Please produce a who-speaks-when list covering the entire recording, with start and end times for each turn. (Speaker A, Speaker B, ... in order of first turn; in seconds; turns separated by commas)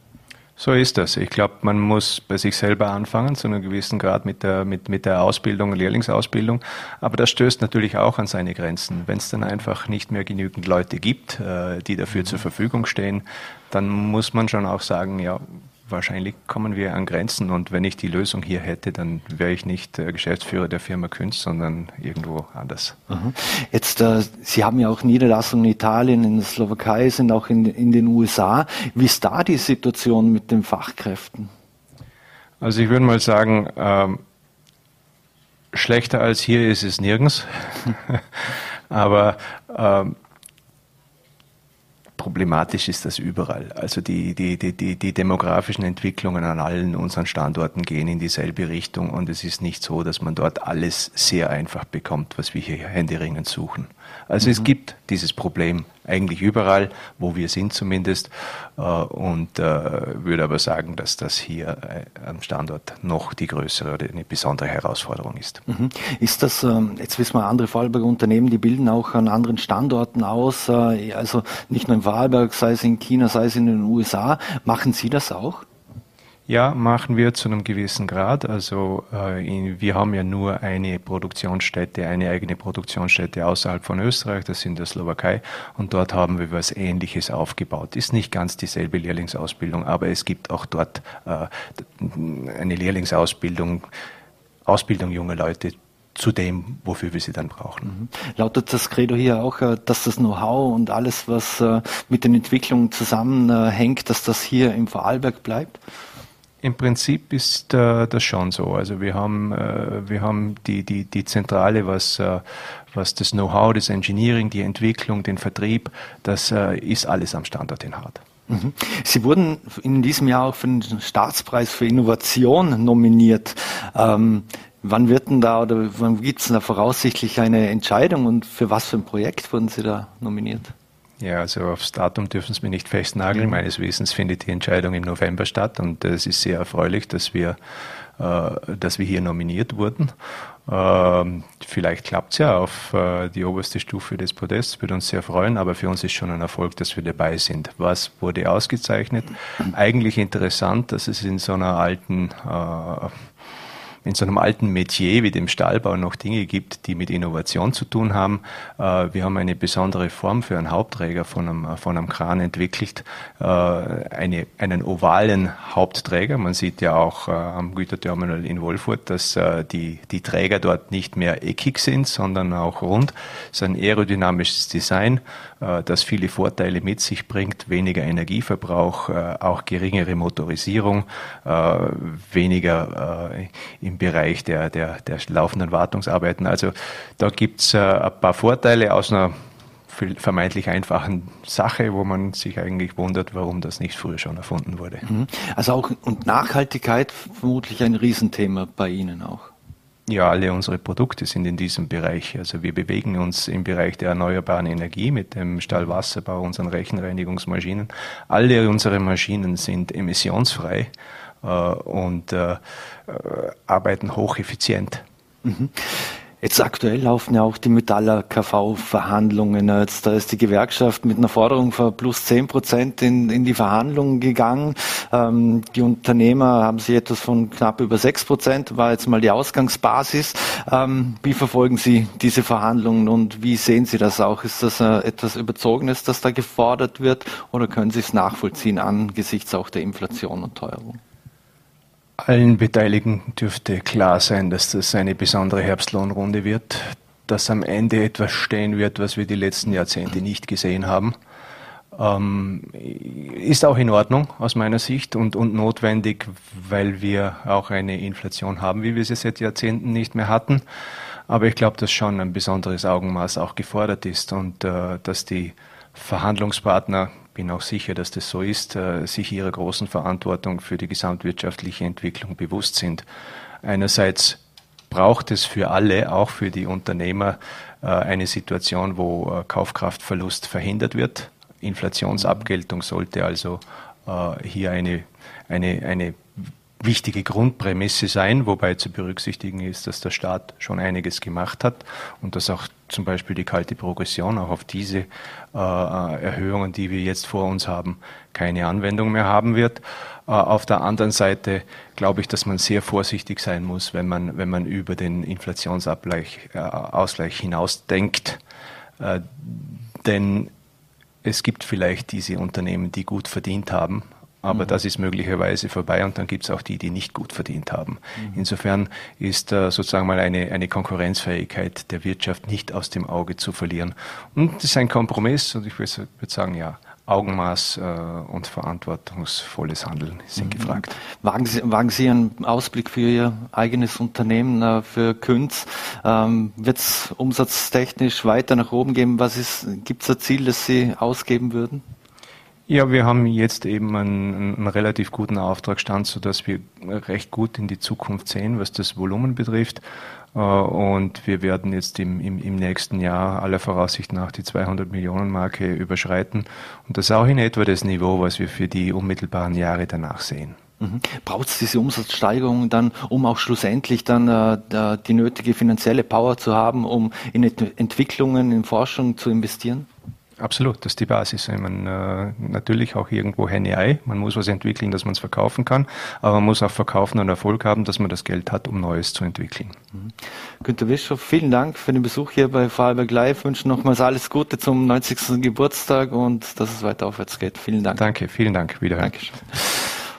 Speaker A: 0.6-23.0, Speaker B: 23.1-31.5, Speaker A: 32.6-34.2, Speaker A: 35.7-40.2, Speaker A: 42.2-65.6, Speaker B: 54.4-54.7, Speaker B: 65.7-75.7, Speaker A: 76.5-93.9, Speaker A: 94.7-97.9, Speaker B: 97.9-105.8, Speaker A: 106.6-118.2, Speaker B: 118.5-130.7, Speaker A: 131.2-137.6, Speaker A: 138.2-140.1, Speaker A: 140.7-153.2, Speaker A: 154.0-189.3, Speaker A: 189.9-195.1, Speaker B: 195.1-199.5, Speaker A: 200.1-210.9, Speaker A: 211.4-215.0, Speaker B: 215.4-241.0, Speaker A: 242.2-251.2, Speaker A: 251.9-260.6, Speaker A: 261.3-273.1, Speaker A: 273.6-274.4, Speaker A: 274.9-286.2, Speaker A: 286.8-308.4, Speaker A: 309.0-310.5, Speaker A: 311.2-330.9, Speaker B: 330.4-341.8, Speaker A: 342.7-349.8, Speaker A: 350.4-360.6, Speaker B: 360.8-369.9, Speaker A: 370.4-379.8, Speaker B: 379.9-388.0, Speaker A: 388.0-389.4, Speaker B: 389.0-389.8